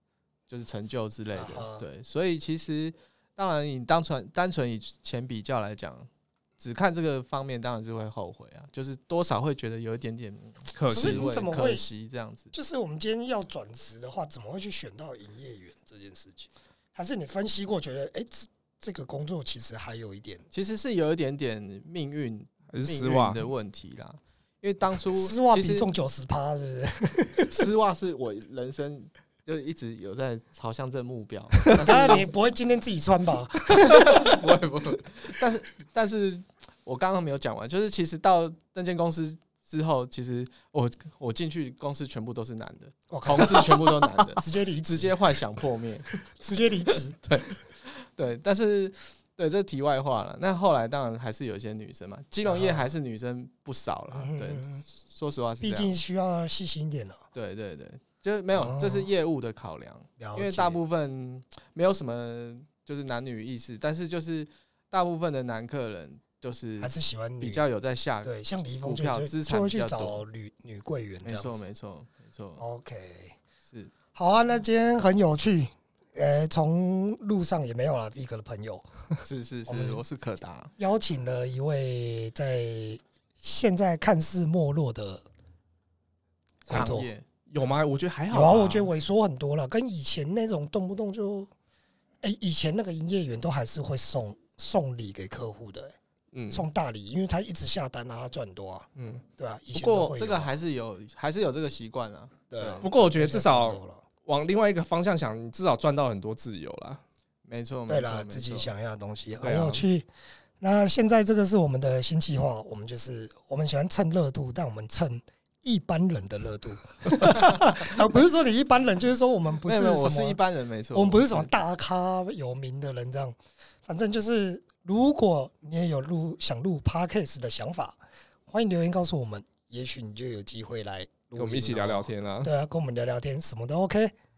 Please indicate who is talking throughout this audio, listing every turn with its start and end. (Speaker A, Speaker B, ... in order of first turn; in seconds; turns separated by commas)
Speaker A: 0.5-12.5, Speaker B: 1.3-1.8, Speaker C: 10.7-11.3, Speaker B: 10.9-11.8, Speaker B: 12.5-20.4, Speaker A: 20.5-25.9, Speaker C: 22.7-23.4, Speaker B: 25.1-27.7, Speaker A: 27.5-32.3, Speaker B: 31.8-34.4, Speaker A: 33.7-46.2, Speaker B: 43.1-45.4, Speaker B: 46.4-47.2, Speaker A: 47.2-56.0, Speaker B: 52.4-52.9, Speaker B: 54.1-54.8, Speaker B: 55.6-57.2, Speaker A: 57.3-70.2, Speaker B: 58.5-59.1, Speaker B: 60.2-60.8, Speaker B: 66.8-67.7, Speaker B: 68.2-71.6, Speaker A: 71.2-72.6, Speaker B: 72.6-73.4, Speaker A: 73.7-73.9, Speaker B: 74.1-78.8, Speaker A: 79.2-80.7, Speaker B: 79.7-80.0, Speaker B: 80.8-85.2, Speaker A: 86.6-87.2, Speaker B: 86.7-87.1, Speaker C: 86.7-87.0, Speaker C: 87.5-88.9, Speaker B: 88.3-91.5, Speaker B: 92.2-95.9, Speaker C: 96.3-96.6, Speaker B: 96.5-100.5, Speaker C: 99.0-99.2, Speaker A: 99.7-102.9, Speaker B: 102.5-104.0, Speaker C: 102.8-107.0, Speaker A: 107.4-108.7, Speaker B: 107.9-110.1, Speaker C: 109.4-109.8, Speaker B: 110.6-120.4, Speaker A: 119.7-121.6, Speaker B: 120.9-134.1, Speaker C: 131.3-132.5